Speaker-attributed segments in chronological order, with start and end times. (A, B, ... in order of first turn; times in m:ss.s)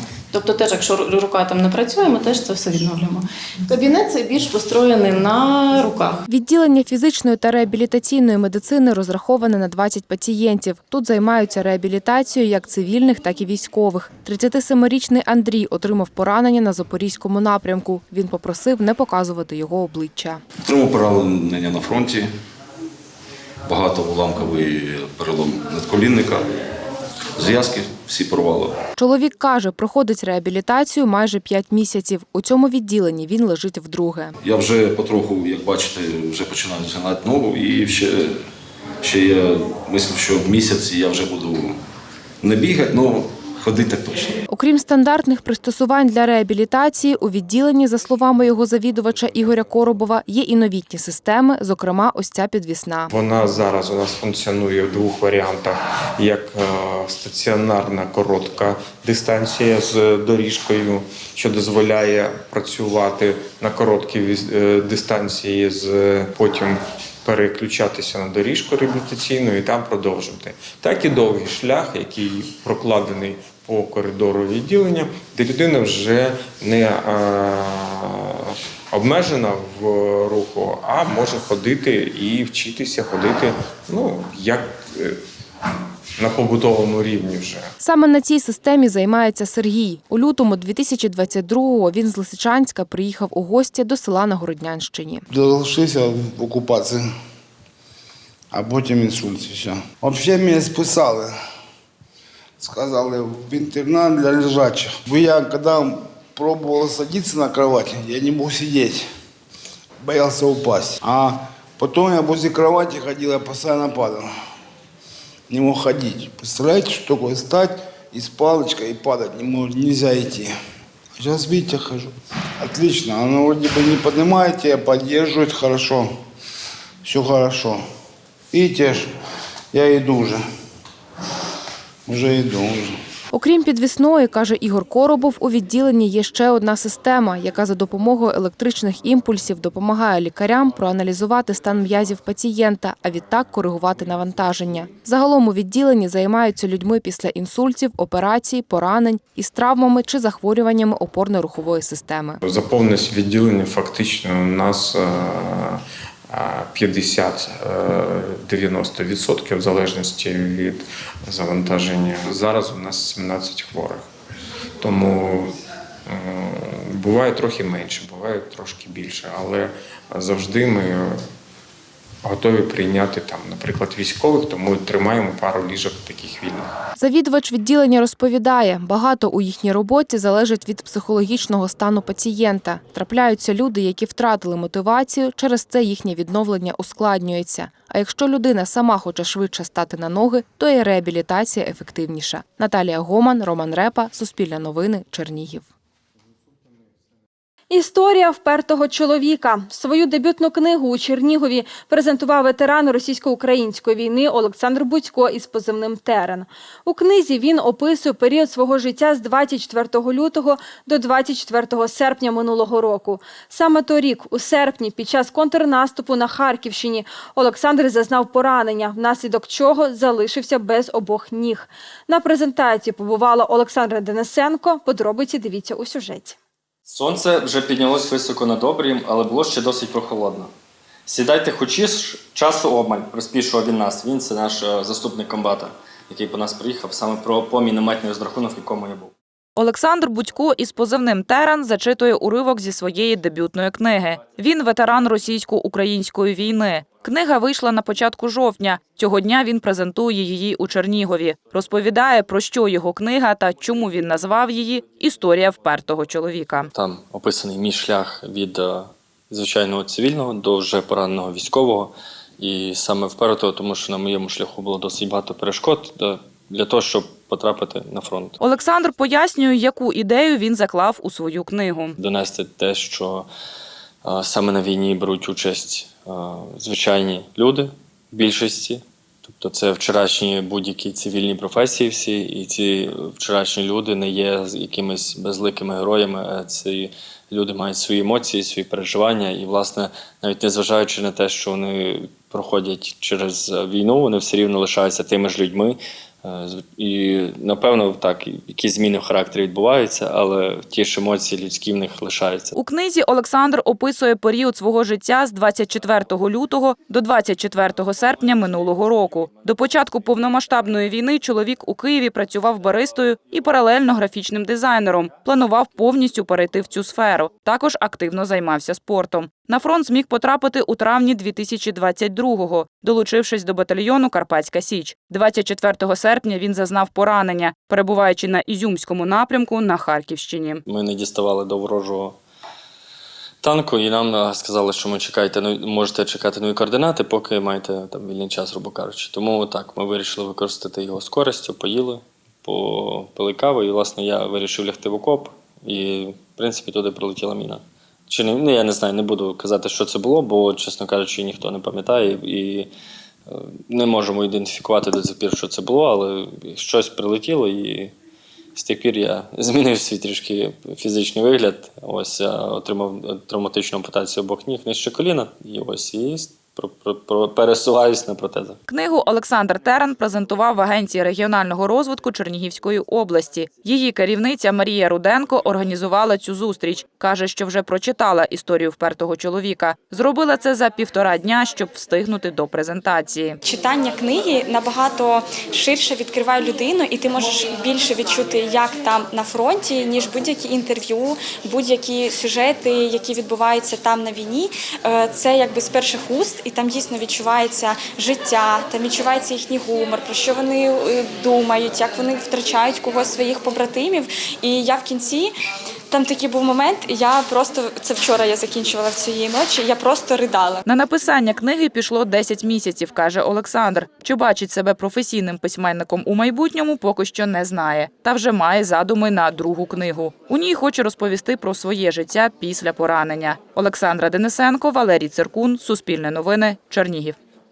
0:00.3-0:06.2 A
0:06.3-0:20.4 B
0:20.7-0:22.2 C
0:23.7-0:26.4 C
0:27.4-0:28.7 C
0:29.0-0:34.3 B
0:34.4-0:38.3 C
0:39.0-0:41.7 C
0:42.4-0:44.3 C
0:44.5-0:53.1 B
0:53.1-1:25.2 D
1:26.2-1:27.7 D
1:27.8-1:35.2 B
1:35.3-1:37.0 E
1:38.5-1:41.3 E
1:42.6-1:49.0 E
1:50.0-1:54.3 E
1:55.5-2:00.5 E
2:01.2-2:06.1 E
2:07.0-2:07.8 E
2:08.5-2:09.1 E
2:09.7-2:10.4 E
2:12.1-2:13.0 E
2:13.3-2:32.4 B
2:32.4-2:44.0 D
2:44.8-2:45.5 D
2:46.1-2:51.2 D
2:52.2-2:56.7 D
2:57.0-3:15.7 B
3:17.7-3:46.4 F
3:46.9-3:50.5 G
3:51.1-3:59.1 G
3:59.6-4:16.7 H
4:16.7-4:28.3 G
4:28.4-4:32.0 H
4:32.0-4:33.3 G
4:34.0-5:02.5 G
5:02.6-5:30.6 H
5:30.7-5:32.2 G
5:33.4-5:52.7 G
5:53.3-5:57.9 G
5:58.6-6:08.6 G
6:08.7-6:23.4 H
6:23.4-6:45.3 I
6:45.9-6:50.6 I
6:50.6-7:07.2 H